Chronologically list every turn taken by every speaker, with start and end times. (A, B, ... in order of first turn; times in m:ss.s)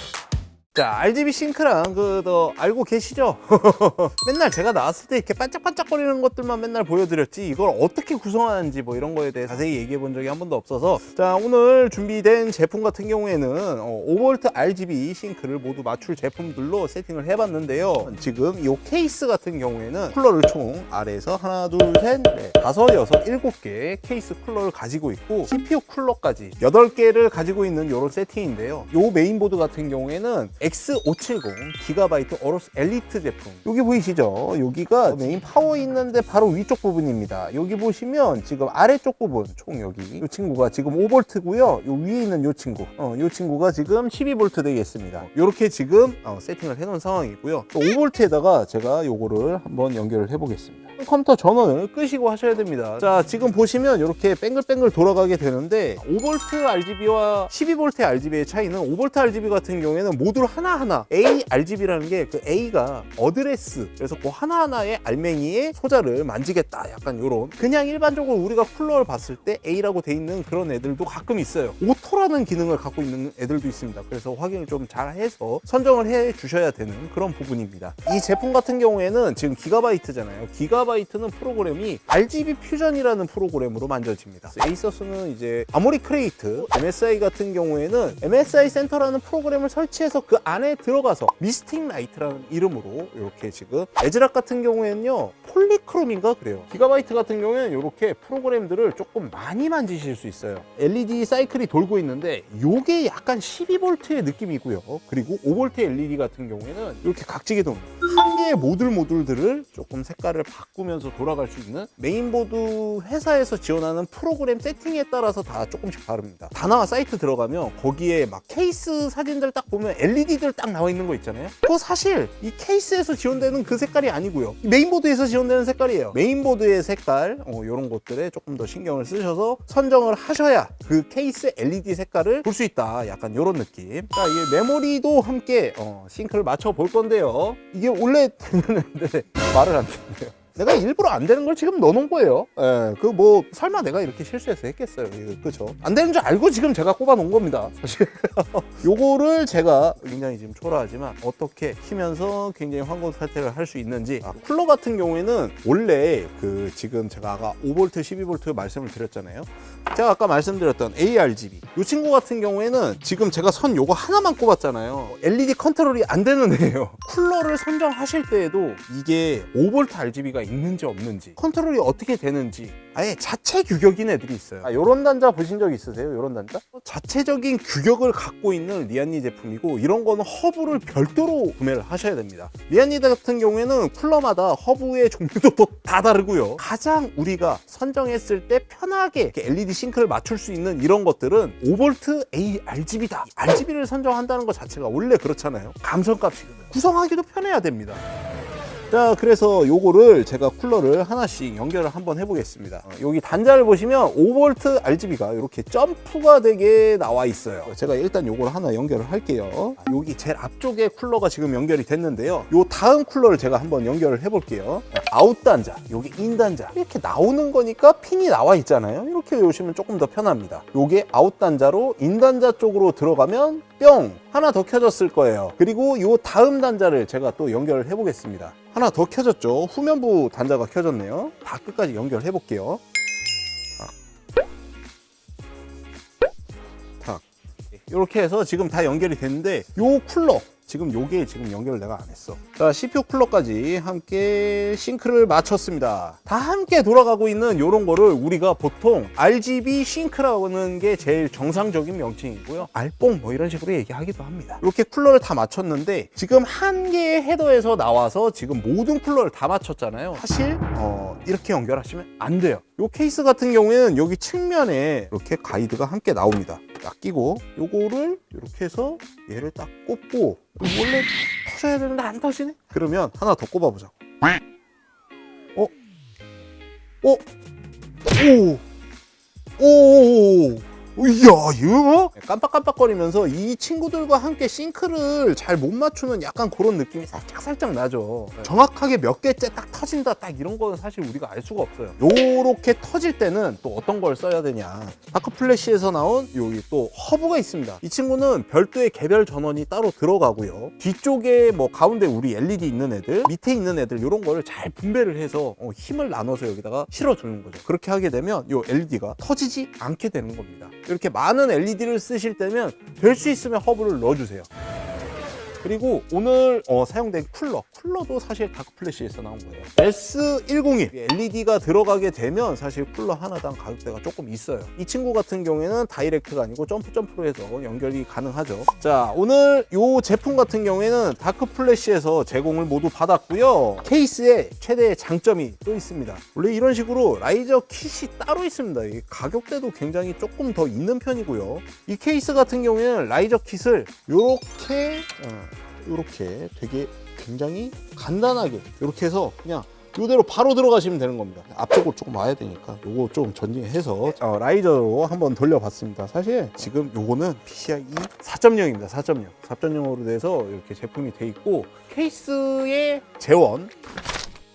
0:00.7-3:18.0 A
3:18.9-3:52.8 A
3:57.7-4:33.9 A
4:38.1-4:38.6 A
4:39.6-5:14.5 A
5:15.6-6:03.7 A